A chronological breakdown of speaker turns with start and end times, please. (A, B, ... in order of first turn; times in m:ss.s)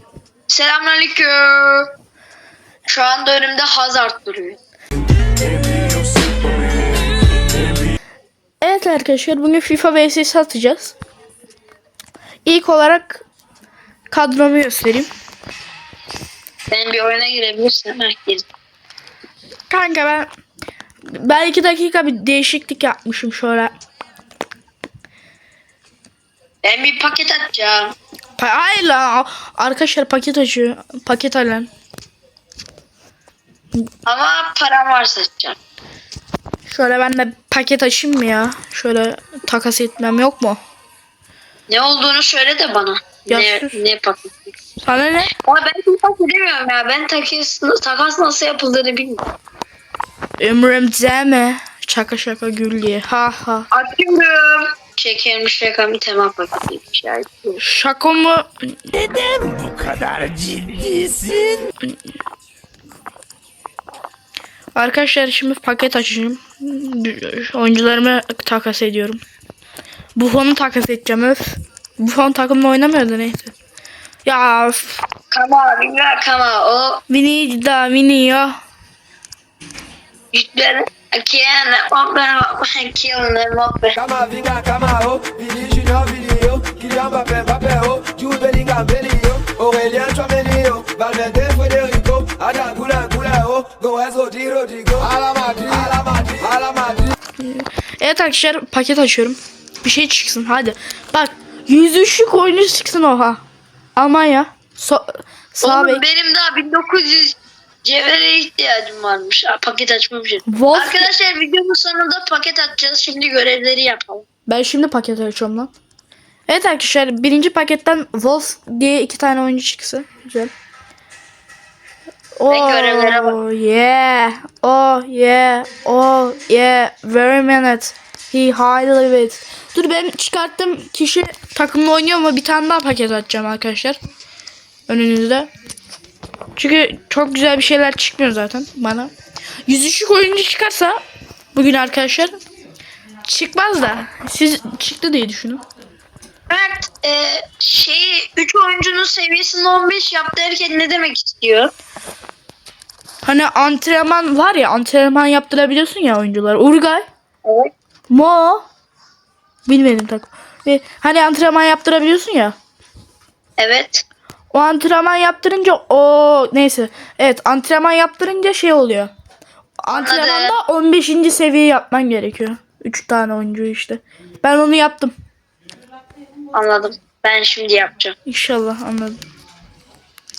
0:00.5-0:01.9 A
0:02.9-0:04.6 A
0:08.6-0:11.0 B
0:12.4-0:13.2 B
0:14.1-0:15.1 B
0:16.7-0:18.4 A
0:19.7-0:20.3 B
0:21.1-0:23.7 B
0:26.6-0:27.9 A
0:28.4-0:31.7 B
0:34.0-0:35.6 A
0:36.7-0:40.6 B
0:41.7-0:44.5 A
0:43.3-0:43.8 B
0:44.8-0:45.3 B
0:45.4-0:49.2 A
0:50.4-0:53.7 B
0:53.7-0:57.6 A
0:57.6-0:59.1 B
0:59.4-1:01.6 C
1:04.7-1:09.2 B
1:10.1-1:13.5 B
1:14.2-1:15.0 B
1:15.3-1:17.0 A
1:17.1-1:18.6 B
1:20.3-1:24.0 A
1:24.0-1:37.1 D
1:37.4-1:43.4 B
1:44.0-1:46.0 B
1:45.6-1:54.2 A
1:50.5-1:51.1 B
1:54.5-1:55.7 B
1:56.5-2:00.5 B
2:02.4-2:14.0 B
2:02.5-2:03.4 A
2:14.9-2:15.5 B
2:16.6-2:19.1 B
2:19.7-2:21.0 B
2:21.5-2:22.4 B
2:23.2-2:25.6 B
2:26.5-2:31.7 A
2:33.2-2:37.0 B
2:37.4-2:37.7 A
2:38.1-2:38.6 B
2:39.6-2:42.5 B
2:43.6-2:44.0 A
2:44.5-2:49.1 B
2:49.8-2:55.1 B
2:49.9-2:50.5 A
2:56.5-2:58.1 A
2:58.2-2:59.2 B